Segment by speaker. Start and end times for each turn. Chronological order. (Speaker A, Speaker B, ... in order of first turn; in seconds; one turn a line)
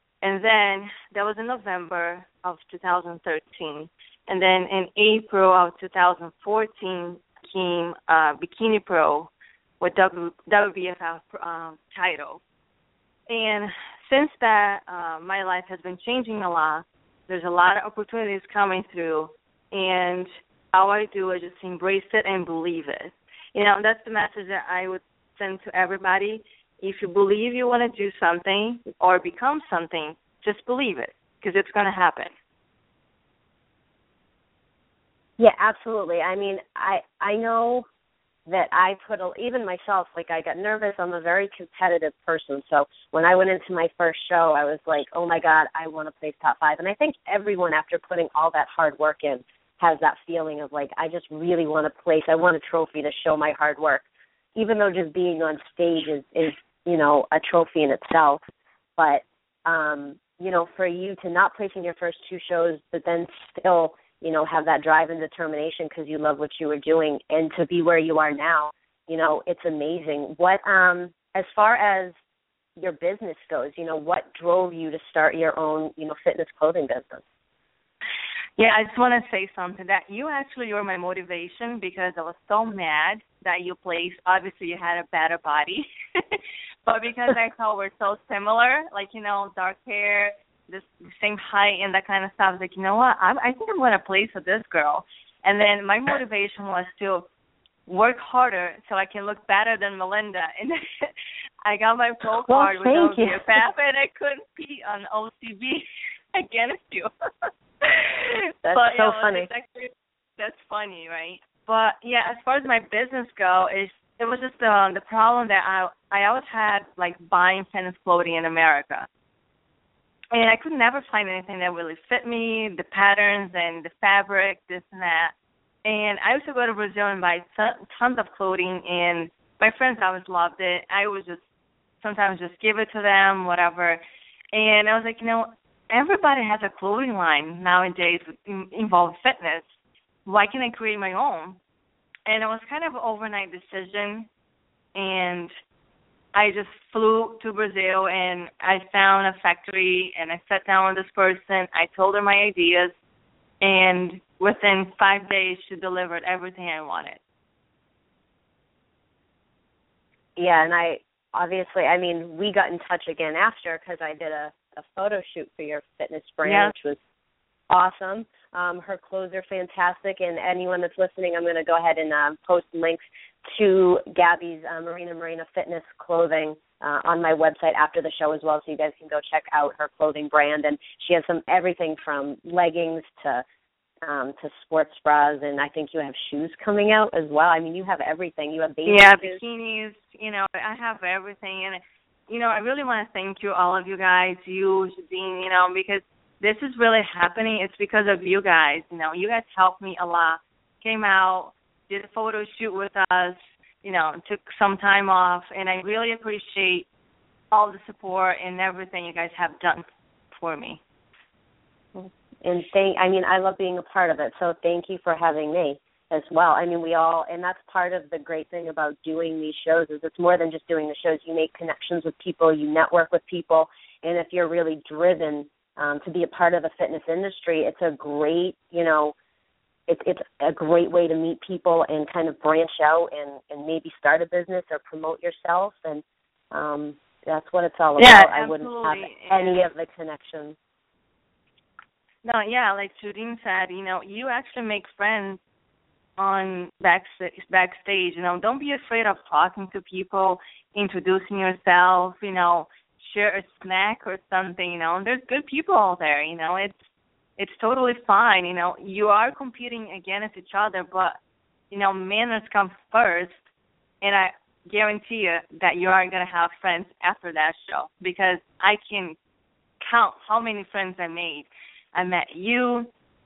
Speaker A: 0.2-12.4
Speaker A: 13.3-32.3
Speaker B: 35.4-37.9
Speaker B: 38.5-58.4
Speaker B: 59.0-72.1
Speaker B: 72.8-77.2
Speaker A: 78.6-97.3
Speaker A: 97.9-101.1
Speaker A: 101.6-119.1
Speaker B: 102.4-103.5
Speaker B: 108.6-109.5
Speaker A: 120.3-125.3
Speaker A: 125.8-131.4
Speaker A: 132.0-134.0
Speaker A: 134.5-139.7
Speaker A: 140.3-141.6
Speaker A: 142.3-144.3
Speaker A: 144.9-145.5
Speaker A: 146.3-152.9
Speaker A: 153.6-157.2
Speaker B: 160.4-167.0
Speaker A: 166.4-166.7
Speaker B: 167.7-183.4
Speaker B: 184.0-189.4
Speaker A: 188.9-206.9
Speaker A: 207.5-210.8
Speaker B: 211.9-229.2
Speaker B: 229.9-240.6
Speaker A: 238.0-239.6
Speaker A: 242.2-245.4
Speaker A: 246.2-256.8
Speaker A: 257.4-261.2
Speaker A: 261.7-263.4
Speaker A: 264.0-269.2
Speaker A: 269.8-272.9